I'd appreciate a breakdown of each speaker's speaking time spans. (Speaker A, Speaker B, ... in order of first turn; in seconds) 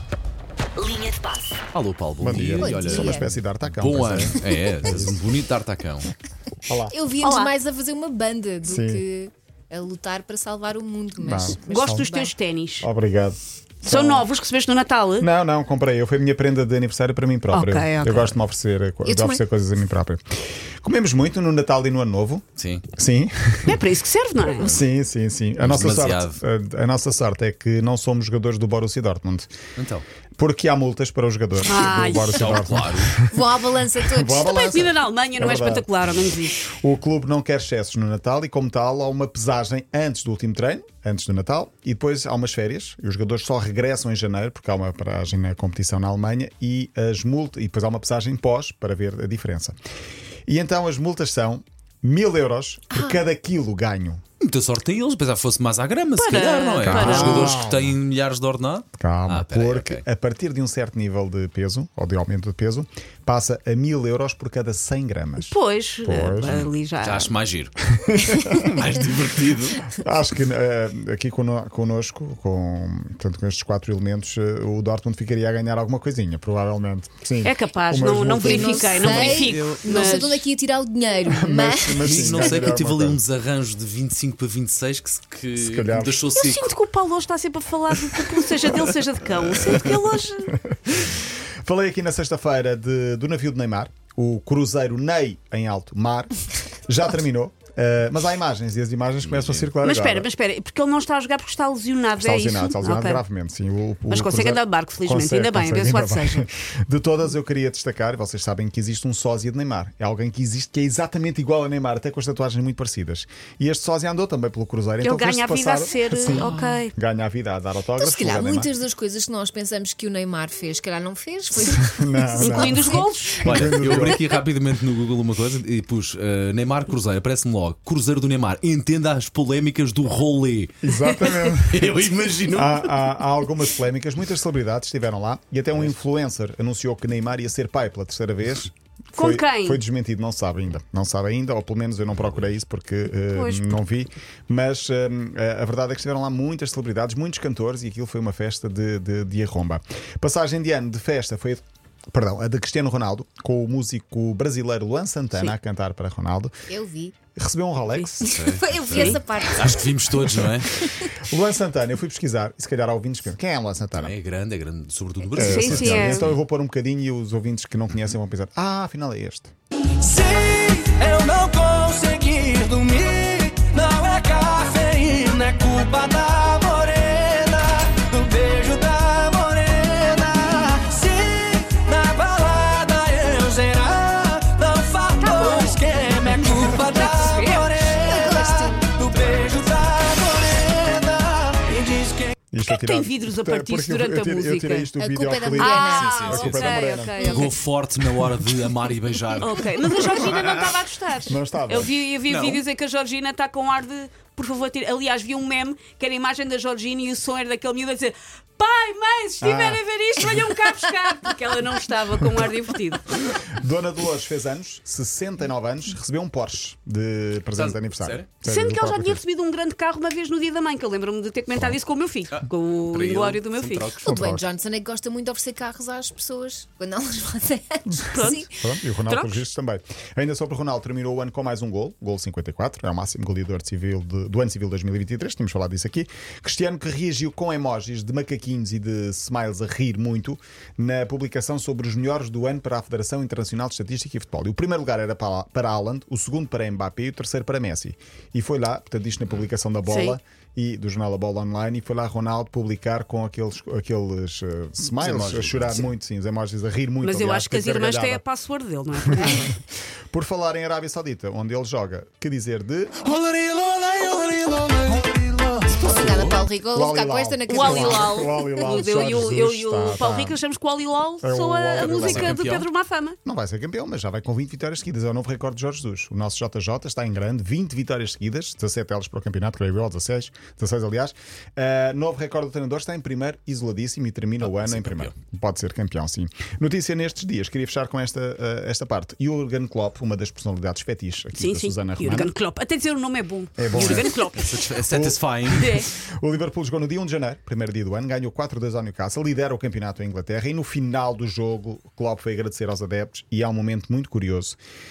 Speaker A: 1.7-6.1, 22.6-22.9, 25.6-26.4, 29.8-30.1, 32.3-33.2, 54.4-60.0, 67.0-67.7, 68.3-69.9, 79.0-80.2, 82.0-86.8, 99.2-99.7, 123.4-133.0, 158.2-160.8, 163.9-166.4, 189.1-189.7, 196.0-200.7, 202.3-202.6, 217.5-218.3, 222.3-224.4, 254.8-255.9, 263.0-266.4, 271.8-272.7, 284.4-285.1, 293.7-295.7
Speaker B: 2.2-5.2, 6.7-6.9, 8.7-9.0, 11.2-12.1, 12.8-14.3, 15.2-20.2, 20.8-22.4, 23.0-23.9, 24.5-29.5, 30.4-33.4, 34.0-36.1, 36.6-49.8, 50.5-54.2, 56.8-58.0, 59.0-66.7, 67.9-68.8, 69.8-79.2, 81.3-83.2, 85.6-86.3, 90.5-100.3, 102.2-118.7, 121.7-124.2, 130.8-156.6, 157.3-158.3, 161.2-164.2, 165.3-169.5, 192.5-197.2, 201.3-201.9, 209.4-210.5, 213.2-219.2, 224.1-224.4, 227.9-258.2, 259.1-259.6, 260.1-263.0, 266.7-270.4, 271.2-272.4, 273.2-292.3, 293.6-304.6
Speaker C: 2.6-3.3, 4.5-4.8, 6.9-12.3, 19.0-19.4, 33.3-34.8, 52.9-53.2, 78.4-82.6, 116.3-116.9, 118.0-124.2, 156.7-157.2, 158.2-161.1, 187.9-188.9, 195.0-196.4, 224.0-228.5, 265.7-268.4
Speaker D: 7.2-7.5, 11.7-12.9, 13.8-15.3, 17.5-18.4, 23.6-24.8, 31.6-32.5, 34.4-36.8, 56.2-57.6, 65.4-67.3, 77.4-80.5, 86.3-90.5, 99.8-103.2, 104.1-106.5, 115.0-116.9, 122.4-123.5, 139.2-139.8, 143.3-143.8, 158.9-159.2, 165.3-166.3, 185.2-188.0, 192.6-194.9, 195.6-197.6, 199.4-213.2, 218.4-223.9, 228.1-228.5, 229.1-229.4, 249.8-250.2, 257.0-259.5, 267.5-273.2, 291.3-294.6, 295.6-295.9
Speaker E: 170.0-192.3